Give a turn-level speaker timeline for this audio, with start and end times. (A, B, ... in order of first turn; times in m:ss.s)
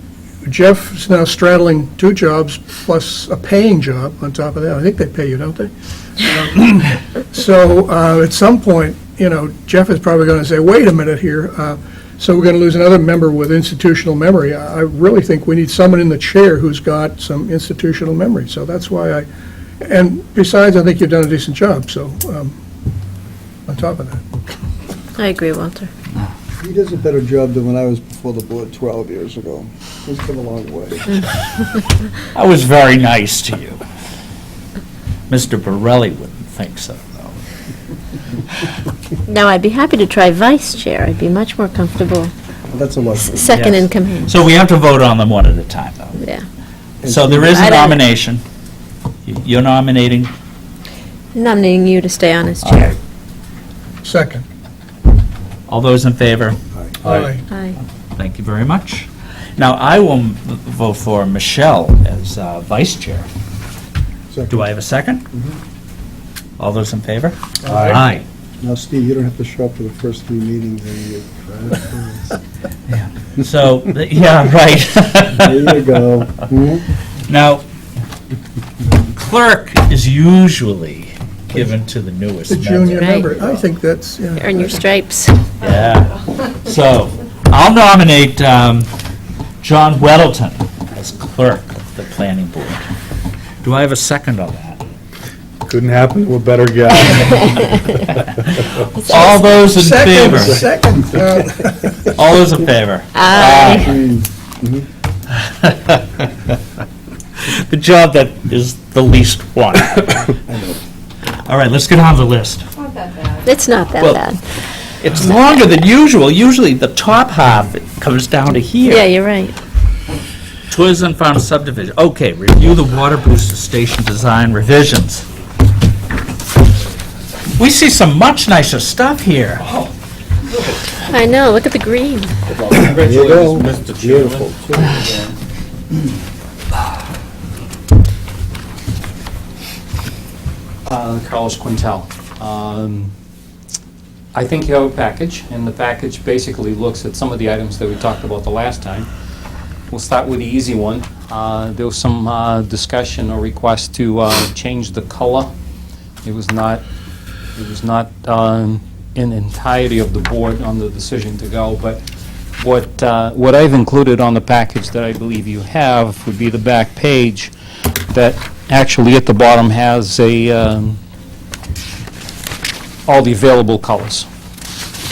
0:00.4-0:19.3 A
0:19.8-0:22.6 A
0:23.7-0:24.2 A
0:25.2-0:25.9 B
0:26.6-0:31.3 C
0:32.3-0:33.8 D
0:35.3-0:37.4 D
0:39.3-0:42.3 B
0:42.7-0:43.6 C
0:43.2-0:44.4 B
0:43.5-0:46.2 D
0:46.2-0:46.4 B
0:47.0-0:47.6 C
0:47.0-0:48.4 D
0:47.5-0:48.0 B
0:49.3-0:50.3 D
0:51.4-0:53.0 B
0:52.6-0:53.0 D
0:54.0-0:54.4 A
0:55.7-0:56.6 D
0:57.0-0:57.4 A
0:57.5-0:57.8 B
0:58.2-1:03.3 D
1:04.3-1:04.7 C
1:04.5-1:05.2 D
1:06.6-1:08.2 D
1:07.6-1:08.0 A
1:07.7-1:08.0 E
1:08.6-1:12.3 C
1:12.9-1:15.9 D
1:15.3-1:16.8 C
1:17.3-1:17.6 D
1:19.1-1:23.0 D
1:22.5-1:24.9 A
1:22.9-1:23.3 B
1:24.4-1:25.5 B
1:25.6-1:28.9 D
1:29.6-1:32.8 D
1:33.6-1:34.8 D
1:35.6-1:38.1 E
1:39.0-1:40.6 D
1:39.1-1:39.5 B
1:39.6-1:42.0 A
1:40.3-1:41.3 E
1:42.2-1:44.0 D
1:43.2-1:43.9 B
1:43.4-1:44.8 C
1:45.6-1:46.3 D
1:47.4-1:50.2 D
1:50.3-1:50.8 C
1:51.5-1:52.7 D
1:53.4-1:54.4 B
1:54.0-1:54.3 D
1:55.0-1:59.1 D
1:58.8-1:59.6 B
2:00.7-2:05.3 D
2:07.6-2:09.8 D
2:11.1-2:12.4 B
2:12.5-2:15.4 F
2:12.7-2:15.0 C
2:20.8-2:23.1 F
2:24.3-2:29.1 F
2:29.9-2:35.5 F
2:36.2-2:36.8 F
2:37.6-2:42.0 F
2:42.6-2:47.5 F
2:48.1-2:51.0 F
2:53.1-2:54.3 F